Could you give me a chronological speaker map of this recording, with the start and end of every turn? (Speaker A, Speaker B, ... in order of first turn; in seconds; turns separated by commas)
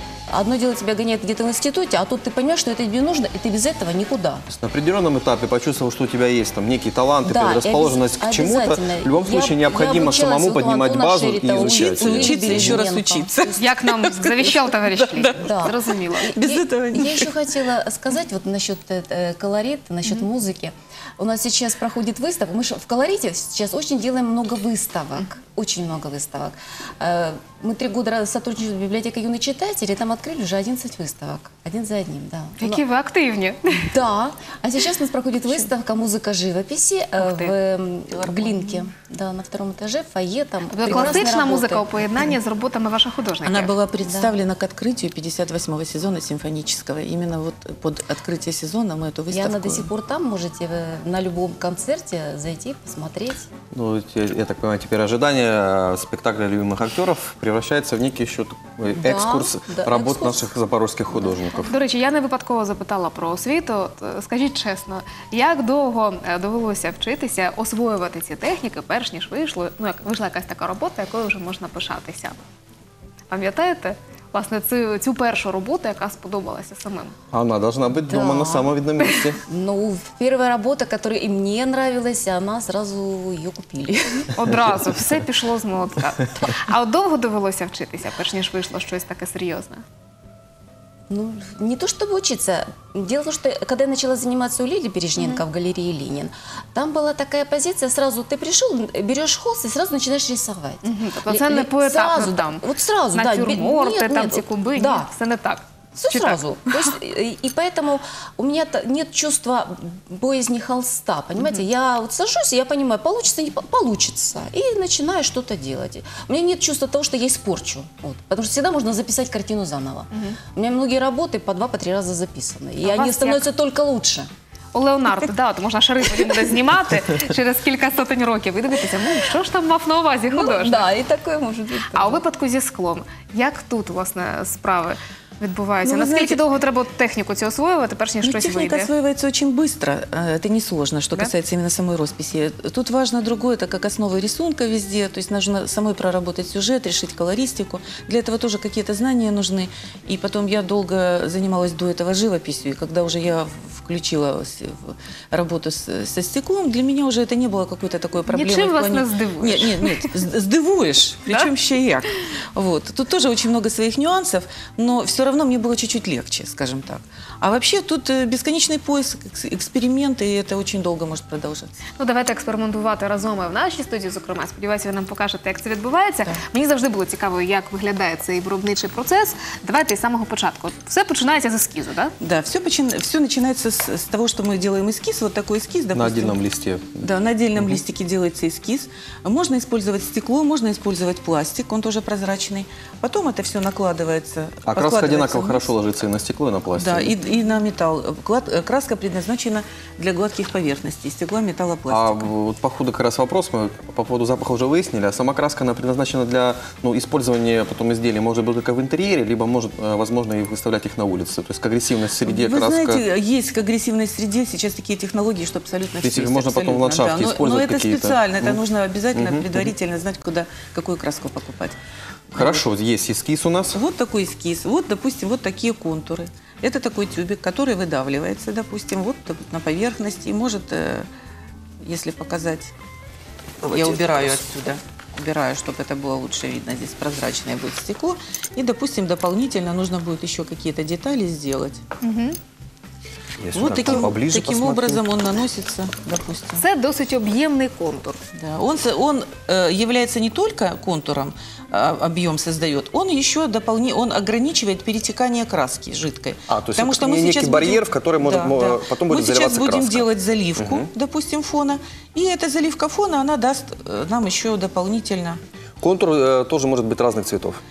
Speaker A: 0.3-4.5, Speaker B: 4.5-12.8, Speaker A: 7.2-13.6, Speaker C: 11.5-15.7, Speaker D: 13.6-16.4, Speaker A: 15.4-32.8, Speaker C: 16.2-17.4, Speaker D: 32.6-34.0, Speaker A: 33.8-42.0, Speaker D: 37.2-37.5, Speaker C: 38.1-38.9, Speaker D: 40.7-43.7, Speaker C: 40.9-41.3, Speaker C: 43.4-49.9, Speaker A: 44.0-44.4, Speaker A: 49.3-53.5, Speaker B: 53.7-61.7, Speaker A: 59.0-60.5, Speaker A: 61.1-61.6, Speaker D: 61.7-72.4, Speaker D: 73.3-77.2, Speaker B: 77.3-79.4, Speaker A: 78.1-84.4, Speaker D: 84.3-89.8, Speaker A: 91.1-105.1, Speaker D: 95.2-95.4, Speaker D: 100.8-106.9, Speaker A: 106.0-124.3, Speaker D: 120.1-120.4, Speaker D: 122.8-123.4, Speaker D: 124.7-130.9, Speaker A: 130.3-132.2, Speaker D: 131.9-138.9, Speaker C: 135.8-136.4, Speaker C: 138.2-171.8, Speaker D: 158.3-160.1, Speaker D: 172.0-182.1, Speaker C: 182.2-186.4, Speaker B: 185.9-187.1, Speaker C: 187.0-195.7, Speaker B: 194.7-197.2, Speaker C: 196.8-202.3, Speaker B: 201.9-213.0, Speaker C: 212.2-221.8, Speaker B: 216.0-219.7, Speaker C: 222.3-222.6, Speaker B: 222.3-223.8, Speaker C: 223.7-231.1, Speaker C: 231.8-232.7, Speaker B: 233.6-234.3, Speaker C: 233.6-241.8, Speaker D: 242.0-242.4, Speaker B: 243.4-245.1, Speaker C: 243.6-246.6, Speaker D: 243.8-244.1, Speaker D: 246.6-248.2, Speaker C: 248.3-265.4, Speaker B: 256.5-260.9, Speaker B: 265.8-267.6